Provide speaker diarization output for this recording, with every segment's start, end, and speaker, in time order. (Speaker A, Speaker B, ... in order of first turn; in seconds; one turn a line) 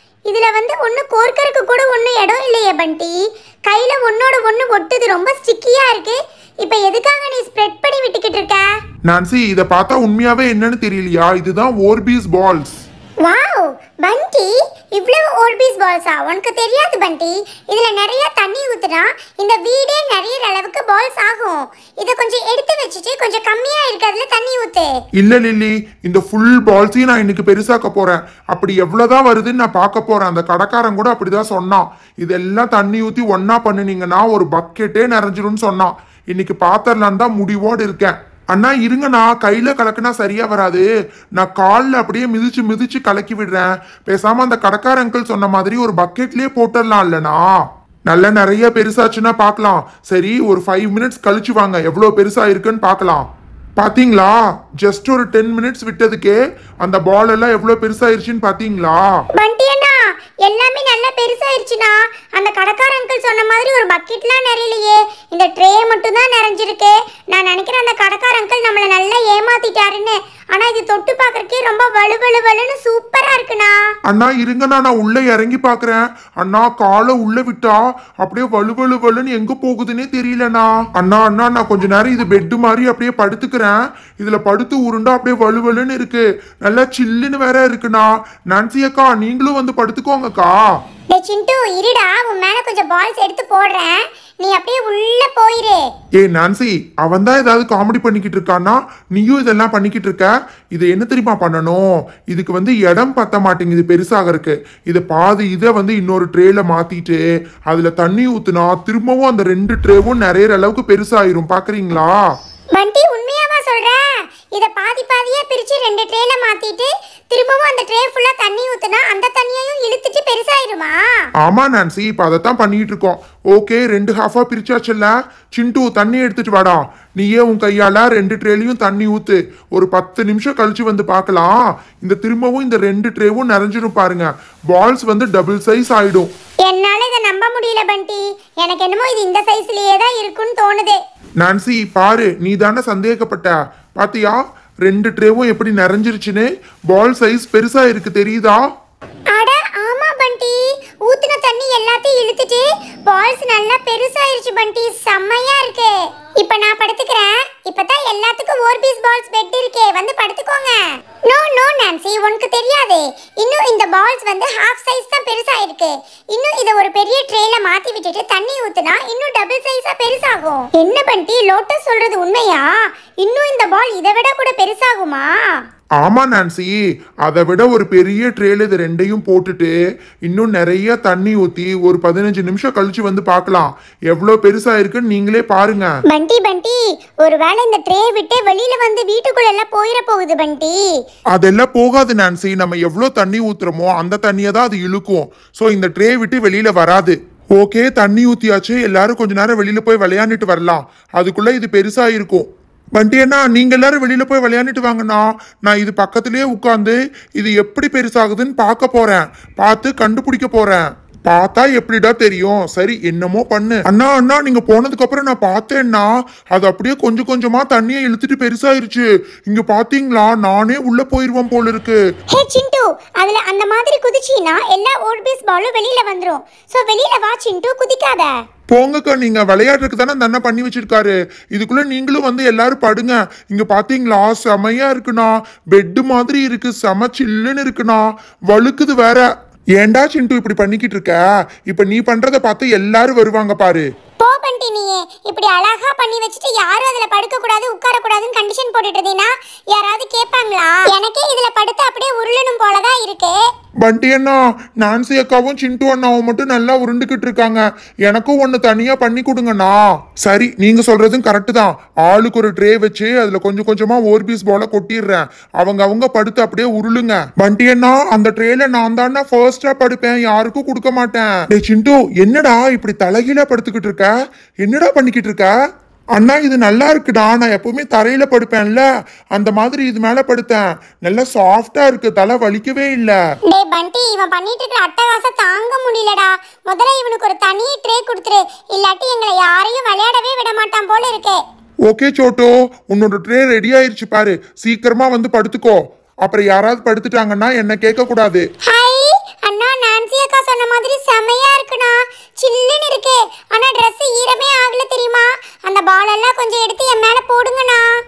Speaker A: 0.3-8.7
Speaker B: 9.1-12.8
Speaker A: 13.2-24.9
Speaker B: 25.2-47.5
Speaker B: 48.1-53.2
Speaker B: 53.8-59.0
Speaker A: 59.4-73.7
Speaker B: 74.1-90.6
Speaker A: 91.1-95.8
Speaker B: 96.2-112.1
Speaker A: 112.7-114.0
Speaker A: 114.5-121.0
Speaker B: 121.4-136.3
Speaker A: 136.7-141.0
Speaker B: 141.4-148.6
Speaker A: 149.3-172.7
Speaker A: 173.2-175.3
Speaker B: 176.0-179.7
Speaker B: 180.2-185.9
Speaker A: 186.1-190.8
Speaker B: 191.3-222.0
Speaker A: 222.3-228.3
Speaker B: 228.7-239.3
Speaker B: 239.8-243.9
Speaker A: 244.2-253.4
Speaker B: 253.8-274.1
Speaker B: 274.6-275.5
Speaker B: 276.1-283.2
Speaker A: 283.5-291.4
Speaker B: 291.9-298.4
Speaker A: 298.7-307.9